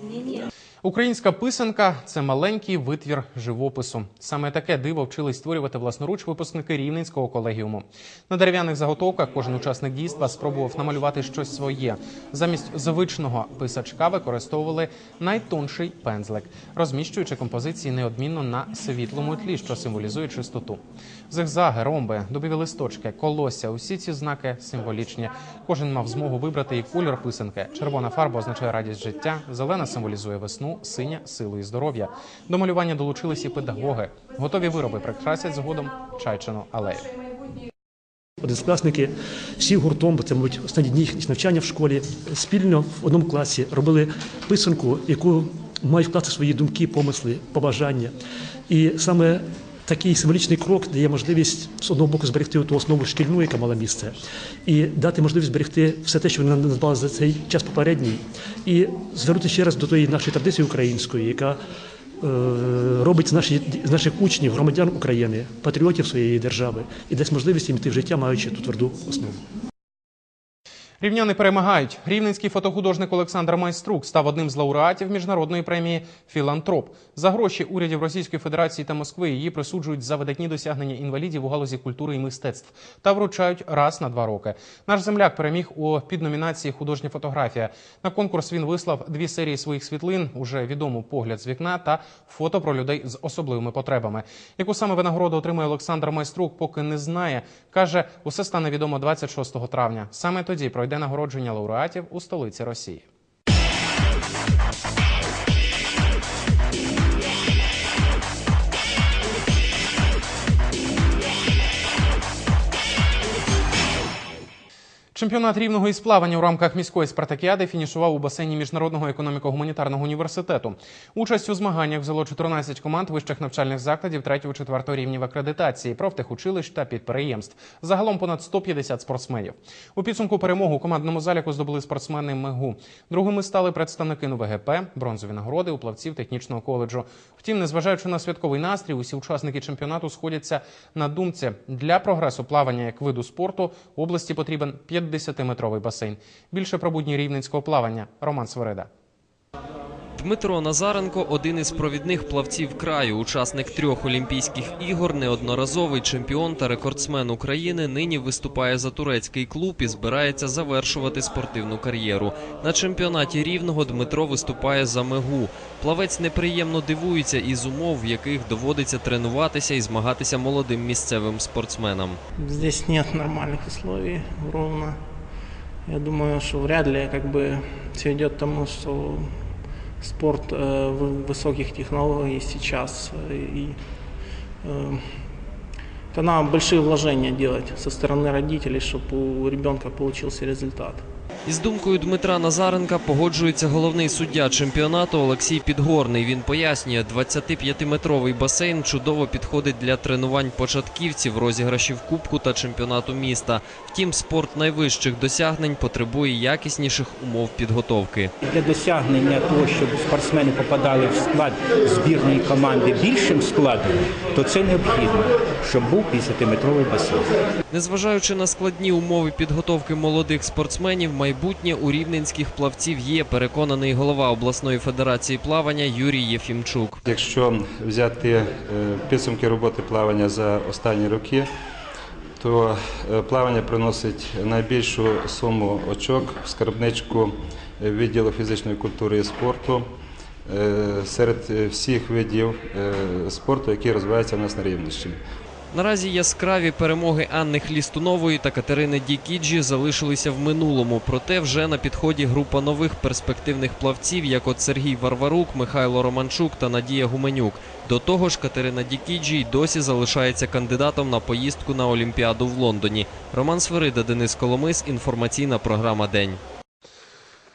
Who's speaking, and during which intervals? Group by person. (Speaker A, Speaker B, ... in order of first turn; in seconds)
Speaker A: 0.8-37.1, 71.0-103.0, 115.1-148.9
Speaker B: 38.4-48.1, 48.7-61.6, 62.2-69.4
Speaker C: 150.2-172.2, 191.5-208.3, 217.7-227.0, 245.7-266.4
Speaker D: 172.4-175.0, 175.9-179.3, 180.0-183.8, 184.7-185.0, 186.1-191.0
Speaker E: 208.5-217.2
Speaker F: 227.0-231.5, 232.4-239.9, 240.5-245.2